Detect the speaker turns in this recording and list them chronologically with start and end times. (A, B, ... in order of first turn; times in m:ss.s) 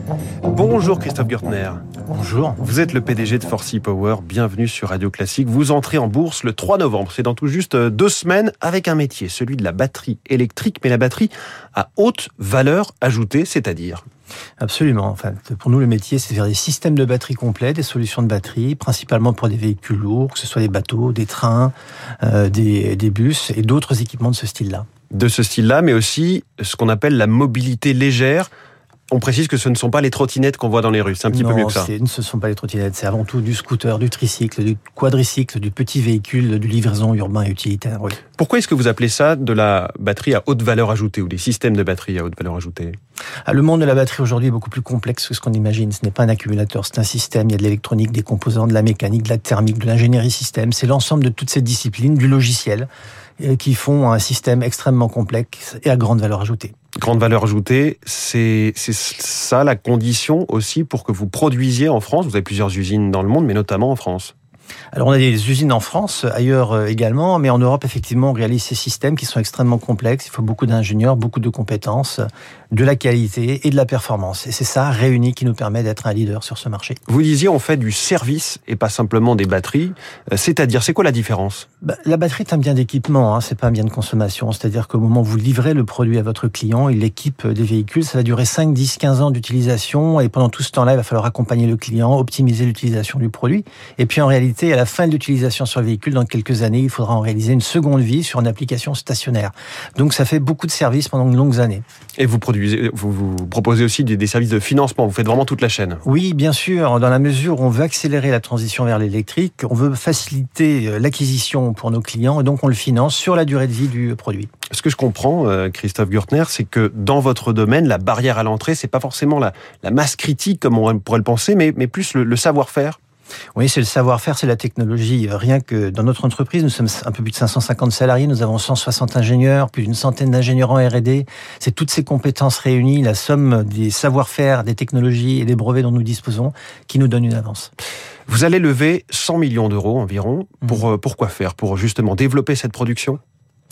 0:00.5-0:01.8 A
0:02.1-0:02.6 B
0:02.6-0:14.0 A
0:14.6-0:24.8 B
0:25.1-0:28.5 A
0:29.1-0:31.9 A
0:31.3-0:38.2 B
0:38.4-0:43.0 A
0:43.5-0:56.7 B
0:57.0-1:04.3 A
1:04.9-1:17.0 B
1:17.1-1:21.6 A
1:21.8-1:41.8 B
1:42.2-1:46.0 A
1:46.0-1:54.5 B
1:54.7-2:03.0 A
2:03.5-2:17.7 B
2:18.3-2:23.2 A